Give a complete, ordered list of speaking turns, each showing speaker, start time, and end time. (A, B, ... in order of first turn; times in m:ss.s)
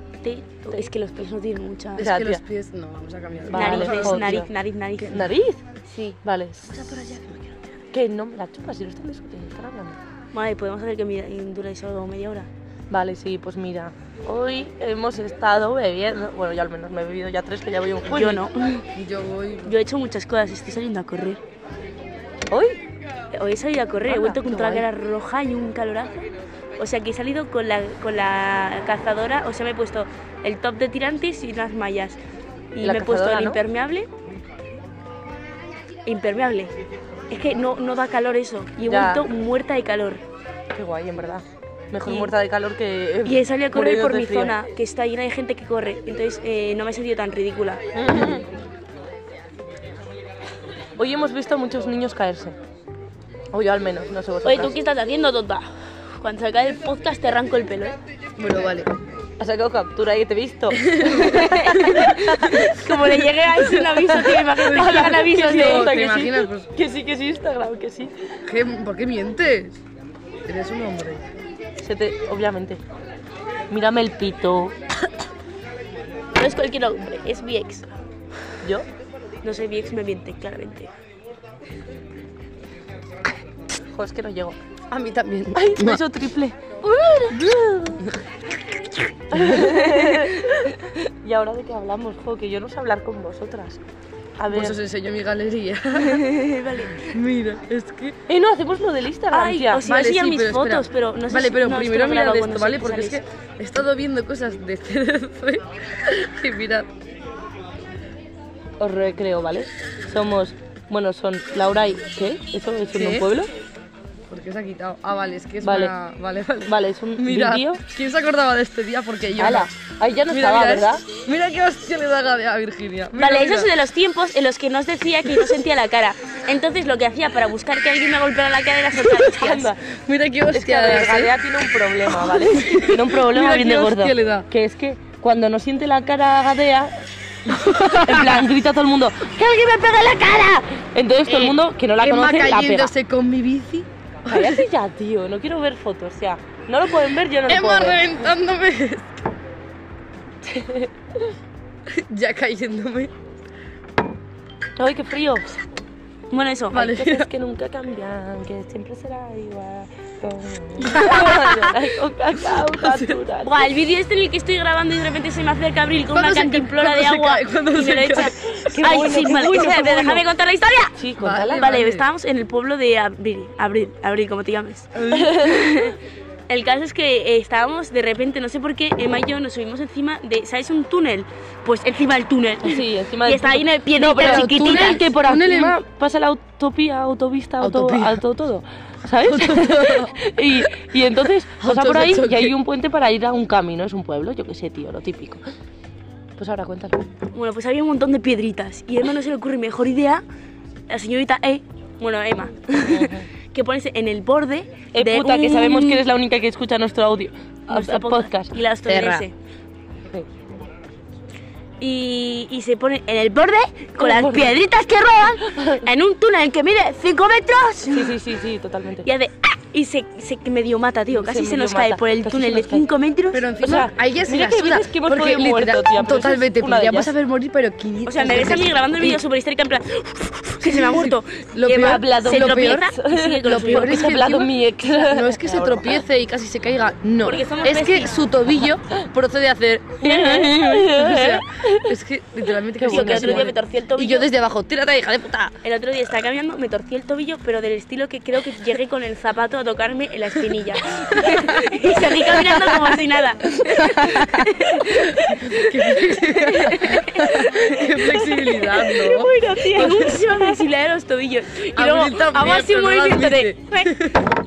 0:00.2-0:02.1 A
0:02.0-0:04.3 B
0:02.0-0:02.4 C
0:03.5-0:04.5 C
0:03.5-0:05.3 A
0:05.1-0:05.6 C
0:05.9-0:06.2 A
0:06.2-0:07.2 C
0:06.7-0:07.6 B
0:07.9-0:10.0 C
0:10.3-0:12.5 A
0:12.9-0:18.4 C
0:18.1-0:18.9 A
0:18.9-0:19.7 B
0:19.6-0:21.4 A
0:22.5-0:22.8 C
0:23.3-0:26.3 A
0:24.0-0:24.8 C
0:26.8-0:32.2 A
0:32.7-0:34.1 A
0:32.8-0:33.6 C
0:36.0-0:36.7 A
0:37.3-0:40.2 A
0:38.9-0:39.2 C
0:40.7-0:44.6 C
0:42.0-0:42.3 A
0:43.2-0:47.8 A
0:47.9-0:48.4 C
0:51.0-0:52.6 C
0:53.5-0:54.8 C
0:54.4-0:58.0 A
0:58.4-0:58.9 B
0:59.4-1:08.3 C
1:00.7-1:02.1 B
1:01.0-1:05.9 A
1:04.7-1:06.7 B
1:08.4-1:09.8 B
1:10.4-1:11.2 B
1:11.8-1:12.8 C
1:13.7-1:14.7 C
1:16.3-1:17.9 A
1:19.4-1:20.9 A
1:23.9-1:24.6 C
1:24.9-1:26.0 B
1:25.5-1:28.2 C
1:29.3-1:33.8 C
1:29.3-1:30.0 B
1:34.4-1:34.8 C
1:34.5-1:38.2 B
1:35.9-1:37.2 A
1:38.3-1:39.8 C
1:39.3-1:43.2 A
1:39.8-1:46.9 B
1:48.8-1:53.5 C
1:52.9-1:53.3 B
1:54.3-1:59.7 B
1:55.6-1:55.9 C
1:56.6-1:57.8 C
1:59.4-2:01.0 C
2:00.3-2:03.7 B
2:03.2-2:09.8 A
2:09.1-2:09.7 C
2:09.9-2:11.4 B
2:10.5-2:16.9 C
2:12.1-2:14.4 B
2:17.5-2:18.5 B
2:17.5-2:22.9 C
2:21.3-2:24.6 B
2:24.2-2:28.1 C
2:27.5-2:29.1 B
2:30.4-2:30.9 C
2:31.9-2:33.1 B
2:34.8-2:35.6 C
2:36.3-2:37.1 A
2:36.7-2:37.3 B
2:36.8-2:43.5 C
2:40.9-2:41.5 A
2:41.0-2:41.7 B
2:42.6-2:43.2 B
2:43.4-2:56.0 A
2:46.1-2:50.2 B
2:48.5-2:50.2 C
2:51.0-2:51.8 C
2:51.2-2:52.0 B
2:54.9-2:55.5 B
2:55.1-2:55.6 C
2:56.5-3:05.1 A
3:02.6-3:15.4 C
3:04.2-3:05.8 B
3:07.6-3:08.2 B
3:09.2-3:10.2 B
3:11.6-3:12.5 B
3:16.4-3:17.0 C
3:17.3-3:20.2 A
3:20.9-3:26.0 A
3:22.8-3:23.3 C
3:24.9-3:28.5 C
3:27.7-3:29.3 A
3:28.9-3:29.2 B
3:31.8-3:38.2 A
3:34.0-3:34.6 C
3:35.5-3:35.8 C
3:37.9-3:39.1 C
3:39.0-3:43.4 A
3:41.1-3:42.8 C
3:43.3-3:49.2 B
3:43.6-3:47.1 C
3:48.0-3:54.1 A
3:50.6-3:52.9 B
3:51.7-3:56.0 C
3:53.4-4:05.6 B
3:57.2-3:58.2 A
4:00.0-4:02.0 C
4:02.7-4:03.5 C
4:02.9-4:04.3 A
4:05.6-4:24.0 A
4:11.2-4:11.6 B
4:13.6-4:14.3 C
4:13.8-4:14.5 B
4:15.1-4:20.3 B
4:17.6-4:20.2 C
4:21.7-4:24.3 B